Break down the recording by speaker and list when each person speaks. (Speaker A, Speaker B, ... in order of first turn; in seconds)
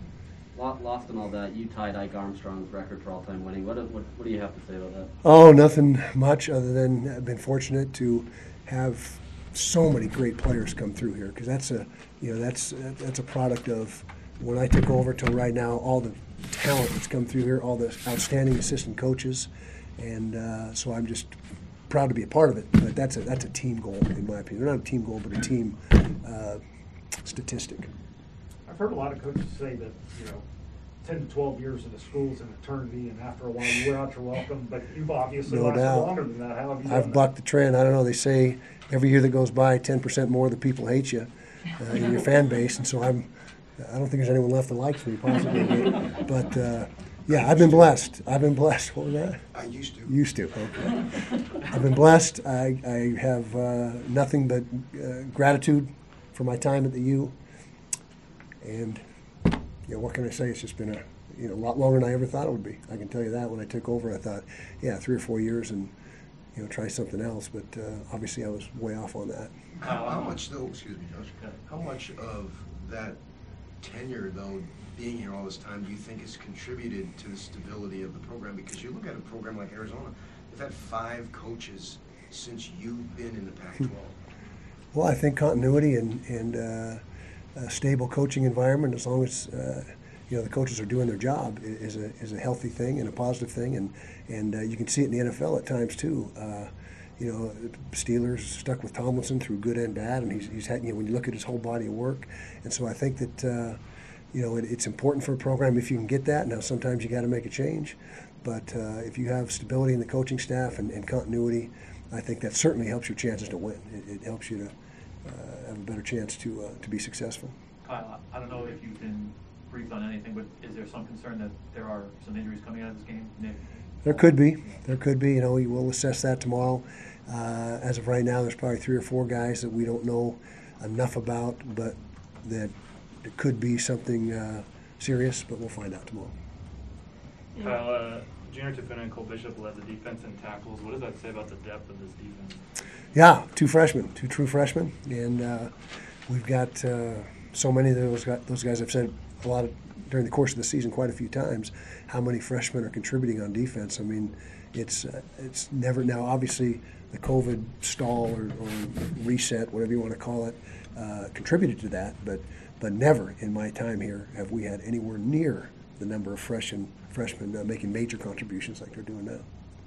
Speaker A: 0.5-5.1
Speaker B: 5.2-21.4, 21.9-26.6, 27.2-27.9, 33.6-33.9, 35.5-36.1, 36.8-49.5, 50.0-57.4, 58.6-59.0, 59.9-65.9, 66.5-69.5, 84.9-87.0, 87.5-103.8, 104.3-114.7, 115.2-117.6, 124.0-132.7, 133.2-136.3, 143.1-145.7, 146.3-169.4
Speaker C: 28.7-30.4, 31.0-37.3, 137.6-138.0
Speaker D: 47.3-47.9, 49.5-50.1, 69.8-73.2, 73.8-84.2
Speaker E: 69.8-70.5, 117.8-124.8
Speaker F: 137.6-142.6